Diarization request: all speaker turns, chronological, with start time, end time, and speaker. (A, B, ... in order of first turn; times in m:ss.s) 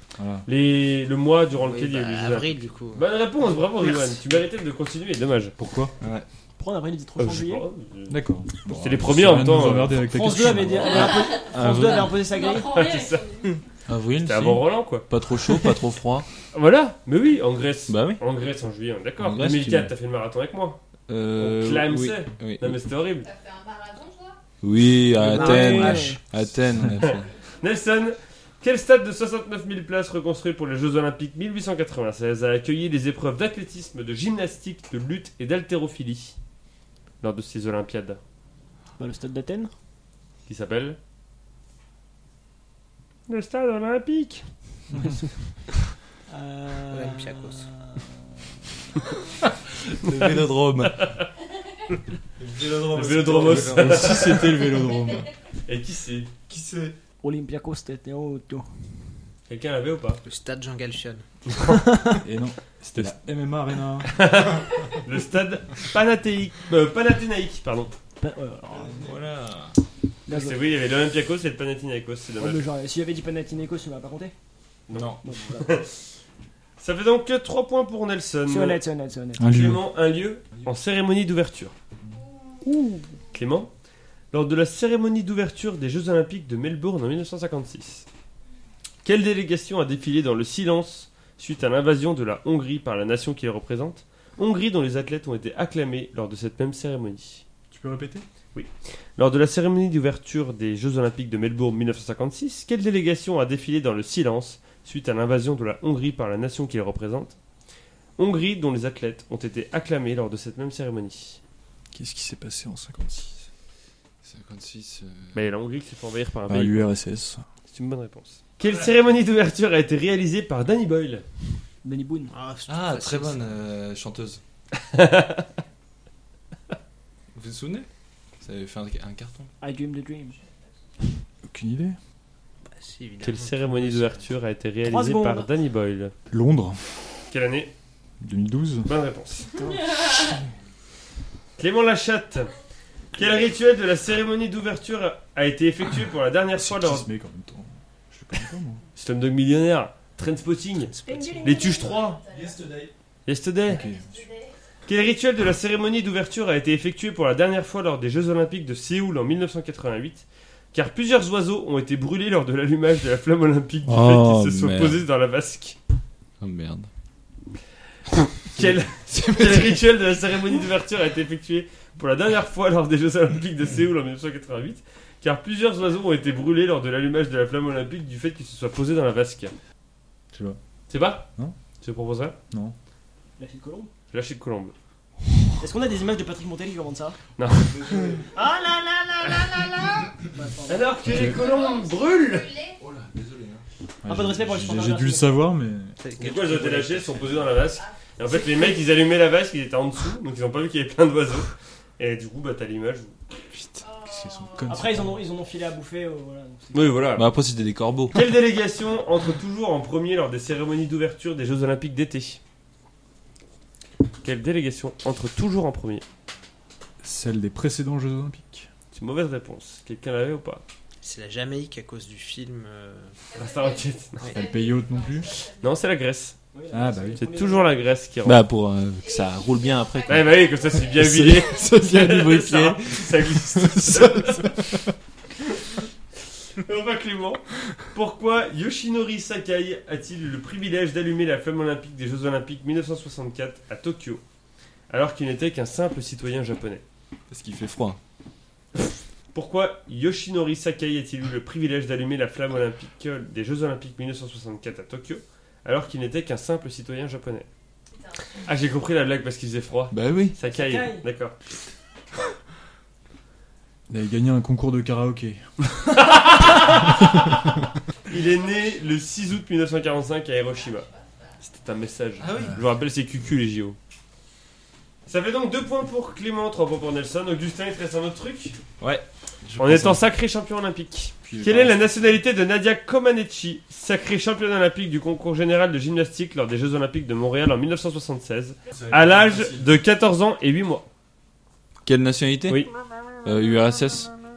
0:00.2-0:00.4 A
0:00.4-0:05.5 B
0:01.5-0:04.2 C
0:05.6-0:05.9 A
0:06.0-0:06.2 D
0:06.6-0:07.6 E
0:07.2-0:10.0 B
0:08.1-0:11.1 A
0:10.1-0:12.7 E
0:10.8-0:12.3 D
0:10.9-0:13.6 F
0:12.6-0:13.5 B
0:13.9-0:16.2 D
0:14.2-0:15.7 B
0:16.5-0:20.8 B
0:17.9-0:18.2 D
0:19.2-0:19.9 D
0:21.1-0:22.8 D
0:21.4-0:23.3 B
0:23.2-0:24.4 F
0:24.6-0:27.3 D
0:25.2-0:26.2 C
0:25.2-0:26.2 E
0:27.0-0:36.4 B
0:37.2-0:38.2 B
0:39.0-0:39.7 E
0:40.5-0:41.0 B
0:43.3-0:44.4 B
0:46.3-0:48.2 E
0:46.9-0:47.7 C
0:49.9-0:51.0 D
0:50.8-0:51.3 B
0:52.4-0:54.2 D
0:52.8-0:54.9 B
0:53.3-0:55.3 A
0:55.7-0:56.3 B
0:56.5-0:56.9 D
0:57.2-0:58.7 E
0:59.5-1:00.2 B
1:00.2-1:01.2 C
1:01.5-1:01.8 B
1:01.8-1:02.1 E
1:02.2-1:04.2 A
1:04.0-1:07.9 B
1:08.2-1:09.1 E
1:08.9-1:09.8 D
1:10.3-1:10.6 E
1:10.3-1:12.6 B
1:12.4-1:14.3 E
1:14.9-1:15.9 B
1:14.9-1:15.2 D
1:15.2-1:15.8 E
1:16.8-1:18.8 B
1:18.5-1:19.4 E
1:19.4-1:19.8 A
1:19.4-1:21.7 B
1:22.6-1:23.1 E
1:23.3-1:23.7 B
1:24.3-1:28.0 B
1:29.0-1:37.4 B
1:37.7-1:38.2 A
1:38.5-1:47.4 B
1:48.2-1:51.4 B
1:51.9-1:53.5 A
1:54.2-1:55.4 D
1:55.3-1:56.9 B
1:56.5-1:57.4 A
1:57.7-2:01.2 B
2:01.8-2:02.3 E
2:02.3-2:03.6 C
2:02.7-2:04.4 D
2:04.8-2:05.5 B
2:07.3-2:07.9 D
2:08.4-2:09.5 D
2:09.6-2:10.4 E
2:11.4-2:12.0 A
2:12.7-2:14.3 C
2:13.2-2:16.1 B
2:14.8-2:15.5 E
2:16.3-2:16.8 A
2:17.3-2:17.7 B
2:18.2-2:18.9 A
2:18.8-2:19.5 B
2:19.5-2:20.0 E
2:19.6-2:20.4 F
2:21.6-2:22.5 B
2:23.1-2:27.1 B
2:26.5-2:28.8 A
2:29.0-2:32.2 B
2:30.8-2:31.8 C
2:31.0-2:31.8 E
2:31.5-2:32.6 F
2:32.3-2:32.9 A
2:33.2-2:33.8 B
2:33.7-2:34.2 A
2:33.7-2:34.5 F
2:34.9-2:45.8 B
2:43.8-2:45.0 D
2:46.4-2:46.9 D
2:48.1-2:59.5 B
3:00.3-3:00.6 A
3:00.9-3:01.3 B
3:01.8-3:02.4 B
3:02.5-3:02.8 A
3:03.4-3:03.9 E
3:04.1-3:04.7 B
3:05.6-3:07.2 E
3:07.4-3:08.0 B
3:08.3-3:10.9 E
3:10.7-3:12.5 B
3:11.1-3:11.4 A
3:11.1-3:12.8 F
3:12.8-3:13.6 D
3:14.0-3:16.0 A
3:14.1-3:15.4 E
3:16.0-3:17.5 C
3:16.2-3:23.1 B
3:18.3-3:18.8 E
3:23.6-3:25.2 A
3:23.8-3:24.8 F
3:24.7-3:27.0 E
3:26.7-3:27.2 B
3:27.1-3:28.2 D
3:28.1-3:32.4 B
3:34.2-3:36.0 B
3:37.0-3:38.7 A
3:38.9-3:40.6 B
3:41.0-3:43.1 C
3:43.3-3:45.9 F
3:43.3-3:44.4 B
3:44.3-3:45.3 A
3:45.4-3:46.4 B
3:46.5-3:47.8 E
3:46.7-3:47.2 A
3:47.2-3:48.4 B
3:48.2-3:53.2 D
3:49.0-3:51.7 F
3:50.1-3:54.7 B
3:51.6-3:52.2 A
3:53.6-3:54.9 A
3:56.5-4:04.2 B
4:04.9-4:06.8 B
4:07.3-4:08.0 D
4:09.3-4:17.5 B
4:18.0-4:18.3 F
4:18.4-4:21.4 B
4:19.9-4:20.3 D
4:20.5-4:21.0 E
4:23.9-4:25.5 A
4:25.8-4:27.6 B
4:28.1-4:30.9 B
4:30.5-4:31.3 F
4:31.4-4:33.8 B
4:32.2-4:32.6 D
4:32.4-4:32.6 A
4:35.1-4:38.6 B
4:38.8-4:40.0 D
4:39.6-4:50.8 B
4:41.2-4:41.8 A
4:48.8-4:49.8 A
4:51.8-4:52.6 D
4:53.2-4:54.1 D